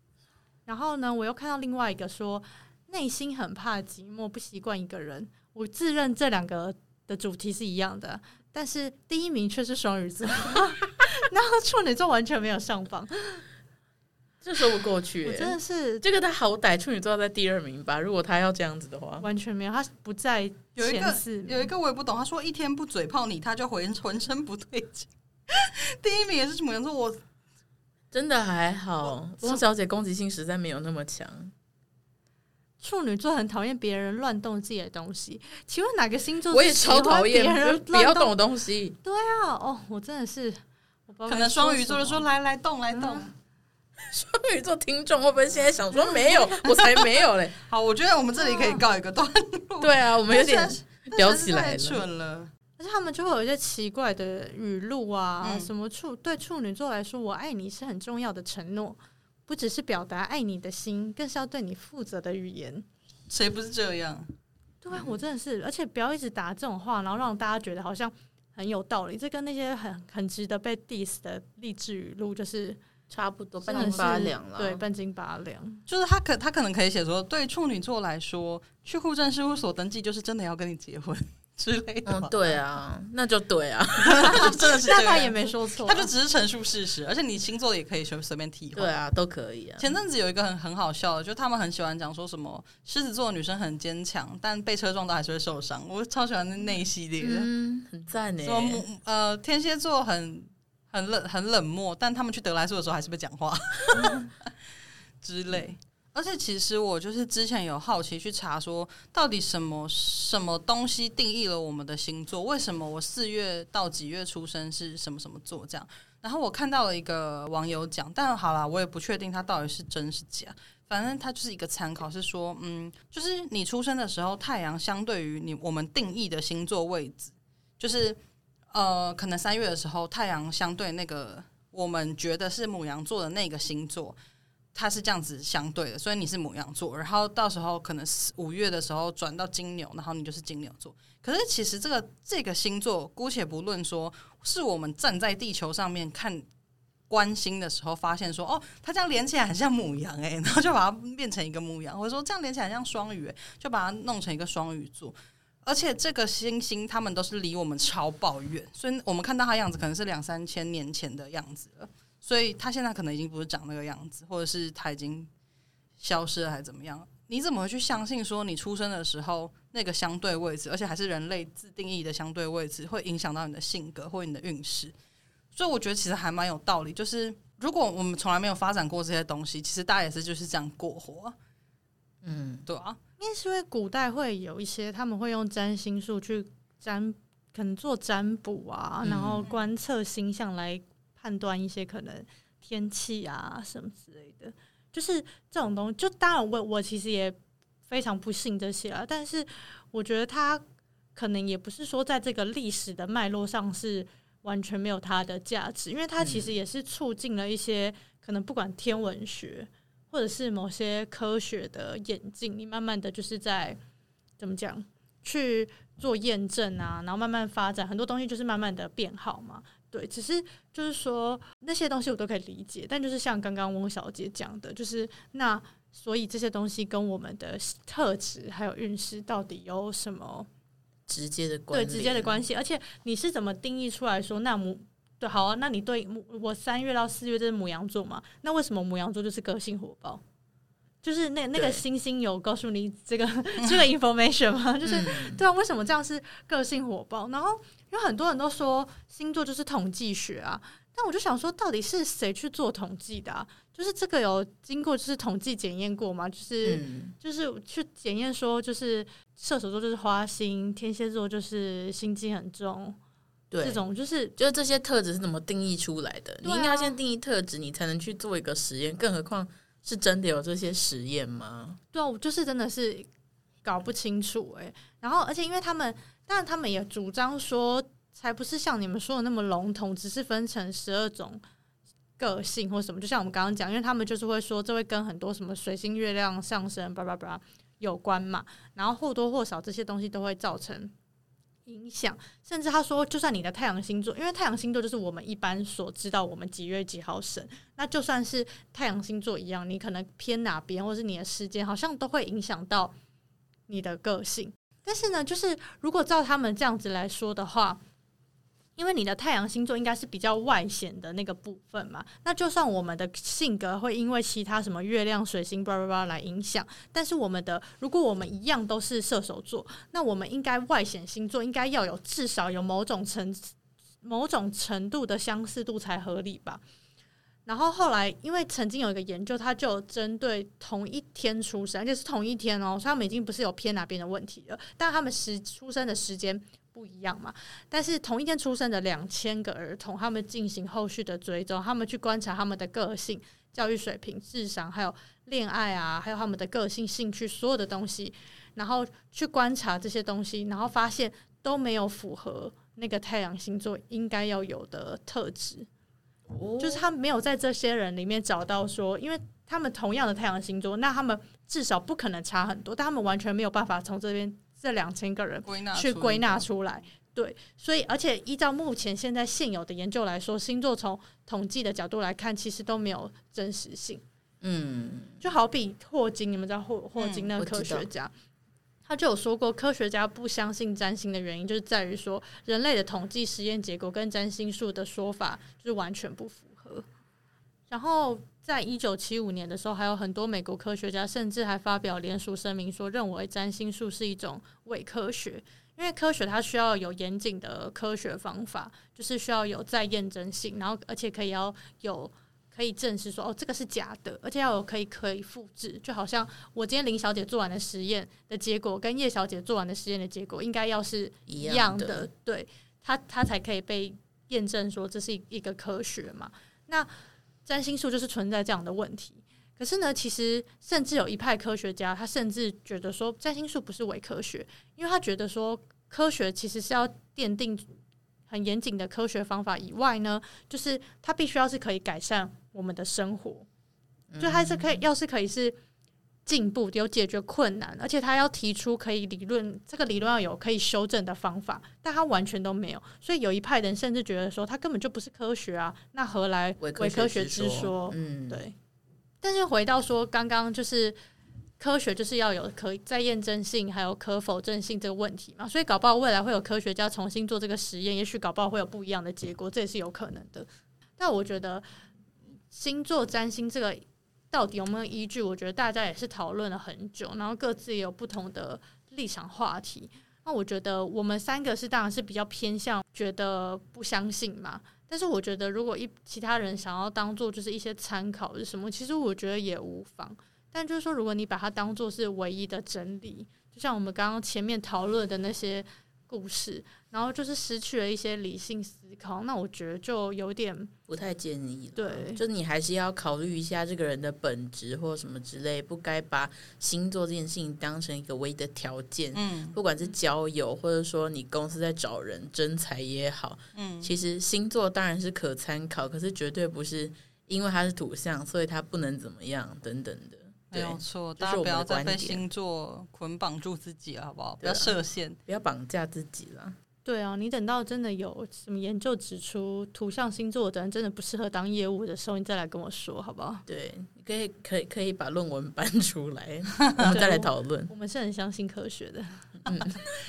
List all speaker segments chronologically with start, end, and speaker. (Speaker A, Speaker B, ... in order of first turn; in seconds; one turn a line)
Speaker A: 0.7-13.4
Speaker B: 14.4-19.3
Speaker A: 15.2-16.1
Speaker A: 19.2-21.7
Speaker C: 20.8-27.2
Speaker B: 28.1-31.5
Speaker A: 32.8-38.3
Speaker B: 36.5-39.0
Speaker A: 39.0-42.2
Speaker C: 41.3-43.3
Speaker A: 42.9-43.3
Speaker B: 44.0-47.6
Speaker C: 46.6-52.5
Speaker A: 48.4-48.8
Speaker B: 49.8-52.0
Speaker A: 52.8-62.9
Speaker C: 55.4-55.7
Speaker C: 63.3-64.3
Speaker A: 64.8-72.8
Speaker B: 73.1-74.8
Speaker A: 73.6-75.8
Speaker C: 75.9-82.5
Speaker B: 82.1-84.6
Speaker C: 84.0-88.9
Speaker A: 84.2-86.1
Speaker B: 88.8-90.0
Speaker C: 89.8-97.5
Speaker B: 97.2-98.8
Speaker C: 98.4-104.5
Speaker C: 105.2-128.2
Speaker C: 128.7-134.2
Speaker C: 134.7-146.4
Speaker C: 147.1-165.3
Speaker C: 166.0-174.9
Speaker C: 175.5-181.3
Speaker B: 182.2-182.7
Speaker C: 182.7-183.0
Speaker A: 183.2-197.4
Speaker B: 189.0-189.5
Speaker A: 197.9-200.6
Speaker A: 201.2-213.8
Speaker B: 206.2-206.5
Speaker A: 214.4-230.5
Speaker B: 231.1-232.4
Speaker A: 231.7-240.2
Speaker A: 241.0-263.0
Speaker B: 241.6-241.8
Speaker B: 244.9-245.4
Speaker B: 256.6-257.1
Speaker B: 263.5-263.8
Speaker A: 263.6-264.4
Speaker B: 264.4-271.8
Speaker A: 266.4-267.0
Speaker A: 271.9-273.1
Speaker A: 273.6-281.4
Speaker A: 282.2-290.9
Speaker A: 291.7-302.9
Speaker A: 303.7-307.8
Speaker A: 308.8-326.6
Speaker A: 327.5-355.7
Speaker B: 356.3-356.9
Speaker A: 356.6-374.0
Speaker C: 365.5-366.4
Speaker B: 374.4-375.2
Speaker A: 375.2-378.1
Speaker C: 377.0-377.3
Speaker B: 377.4-377.9
Speaker A: 378.9-386.9
Speaker A: 387.7-416.9
Speaker B: 411.3-412.1
Speaker A: 417.4-427.7
Speaker A: 428.3-433.5
Speaker B: 434.1-434.8
Speaker A: 434.2-435.6
Speaker A: 436.3-448.6
Speaker B: 446.6-448.4
Speaker A: 449.2-451.0
Speaker A: 451.6-460.5
Speaker A: 461.0-461.6
Speaker A: 462.5-490.7
Speaker B: 490.9-512.2
Speaker A: 491.8-492.2
Speaker C: 499.1-499.6
Speaker C: 503.6-503.9
Speaker C: 510.5-515.2
Speaker B: 514.4-514.8
Speaker B: 515.3-516.5
Speaker A: 516.9-523.5
Speaker B: 523.5-527.7
Speaker C: 526.6-526.9
Speaker A: 526.8-529.2
Speaker B: 529.5-529.8